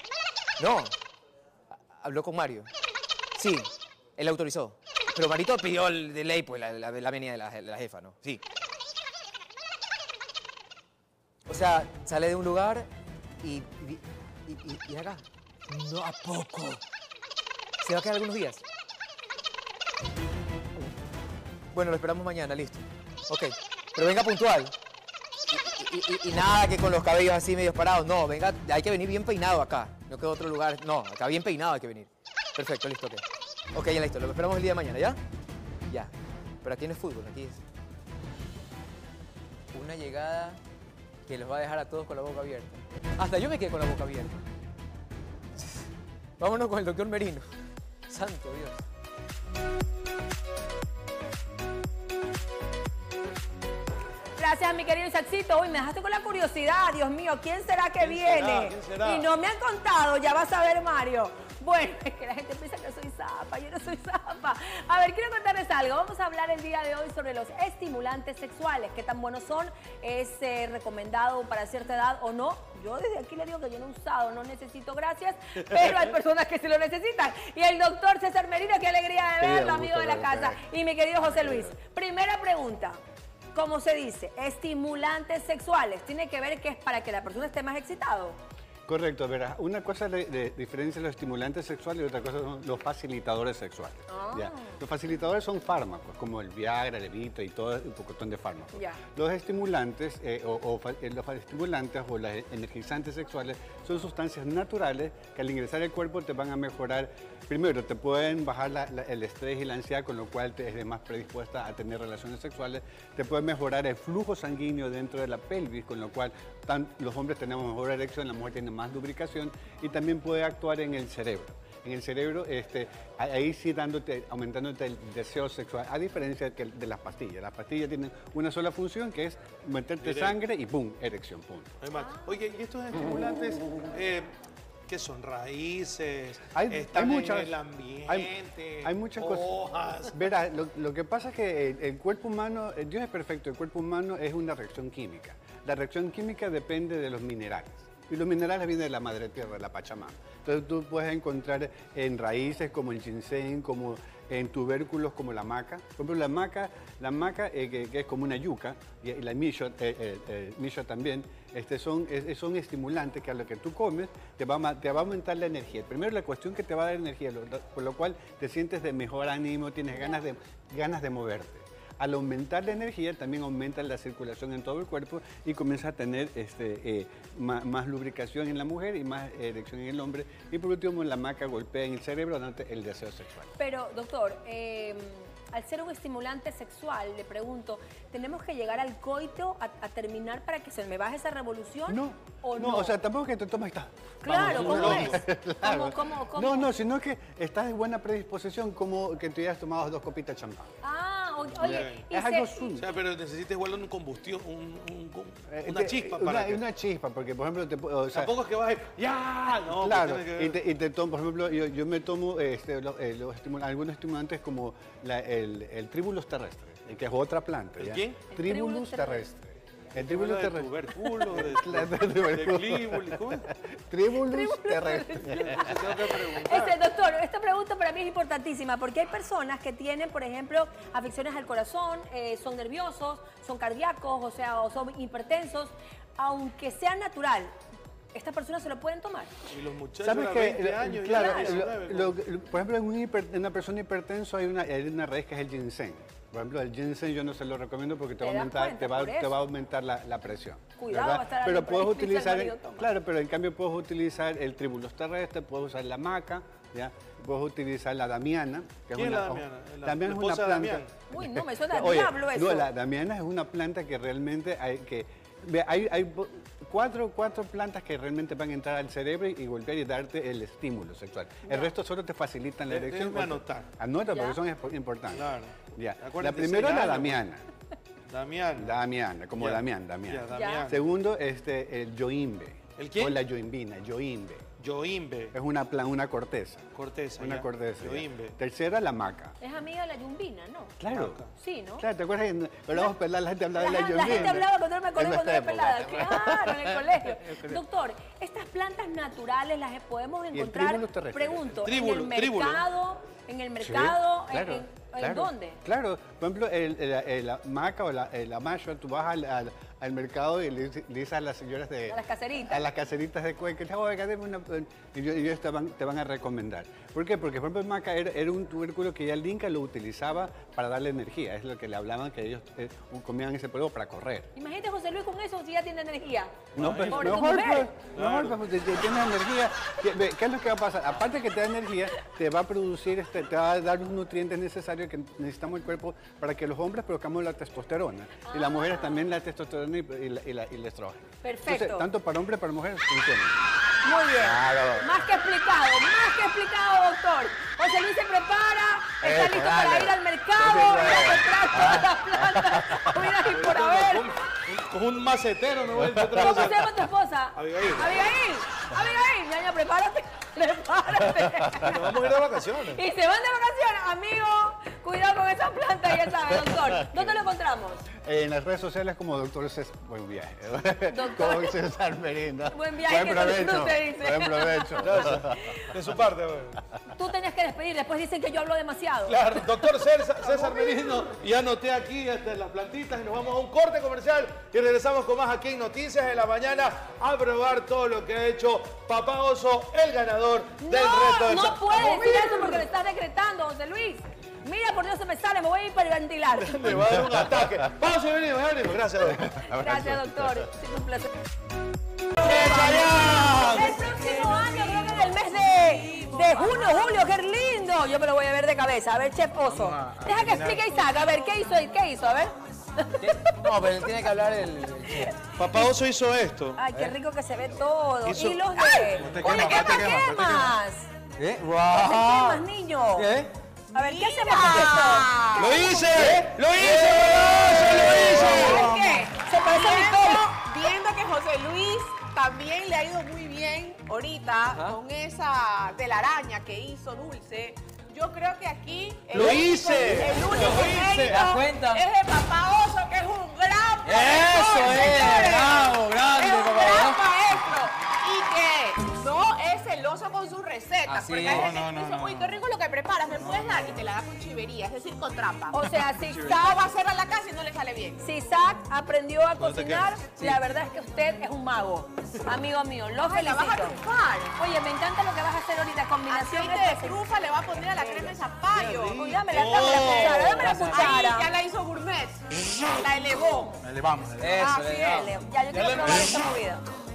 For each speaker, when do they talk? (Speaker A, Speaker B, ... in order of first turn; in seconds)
Speaker A: 0.6-0.9, 1.9-2.7, 3.4-8.4, 11.5-12.9, 13.4-16.8, 17.8-18.6, 21.7-24.7, 25.5-35.2, 35.9-37.6, 39.7-40.6, 41.3-44.4, 45.6-45.9, 46.4-47.5, 48.1-48.8, 413.0-415.2, 421.2-422.0, 423.0-423.3, 425.9-428.2, 439.1-440.1, 441.1-441.8, 443.8-447.0, 450.9-451.5, 470.3-470.9, 474.2-475.1
Speaker B: 54.4-83.0, 83.5-88.4, 94.1-94.8, 98.7-99.0, 183.6-192.9, 194.2-196.7, 200.8-202.9, 218.3-219.3, 224.2-237.5, 238.1-239.3, 241.1-241.6, 248.2-249.3, 250.8-252.9, 261.1-262.7, 271.5-271.7, 274.1-274.4, 280.3-280.7, 289.4-290.8, 291.3-291.8, 293.5-305.6, 311.9-312.7, 324.4-327.7, 338.3-339.0, 341.2-341.9, 343.8-354.1, 356.2-367.8, 370.9-371.6, 372.5-375.6, 376.9-379.6, 380.2-380.9, 390.6-396.8, 399.5-401.1, 402.2-413.5, 416.6-420.9, 421.7-423.1, 423.7-425.1, 427.8-430.2, 455.5-456.6, 458.0-463.8, 464.4-467.0, 468.9-471.3, 474.3-476.6
Speaker C: 58.0-59.3, 130.0-130.4, 131.8-134.3, 134.9-140.2, 194.3-195.2, 201.6-202.1, 202.8-206.6, 208.1-210.6, 217.8-218.3, 219.9-223.5, 225.2-226.8, 239.5-242.2, 258.9-261.0, 272.6-273.7, 275.1-277.2, 278.1-278.8, 279.4-280.8, 282.8-283.2, 284.6-285.3, 286.8-288.3, 290.9-291.3, 301.6-302.6, 326.6-327.3, 327.9-328.4, 353.1-356.8, 357.3-358.0, 361.6-362.8, 374.8-376.6, 379.1-392.6, 396.4-399.4, 402.2-404.3, 415.4-416.9, 418.0-419.3, 421.5-422.4, 425.3-428.7, 439.1-441.2, 459.4-459.9, 467.8-470.8, 475.5-476.2
Speaker D: 79.4-81.8, 88.9-131.8, 136.5-183.5, 191.9-200.7, 201.6-202.9, 205.5-208.3, 209.7-225.8, 240.0-277.5, 278.6-284.5, 285.3-289.4, 290.8-291.2, 291.8-297.6, 300.3-301.5, 303.6-324.3, 326.6-343.4, 344.2-344.9, 349.0-349.9, 350.4-352.9, 366.3-367.2, 367.9-375.3, 396.9-397.2, 399.1-400.5
Speaker E: 409.4-410.8, 418.9-420.6, 451.2-452.4, 453.2-453.6, 473.6-474.6
Speaker F: 423.7-426.0, 428.0-455.7, 456.2-458.0, 463.0-464.3, 466.1-473.6, 474.4-474.8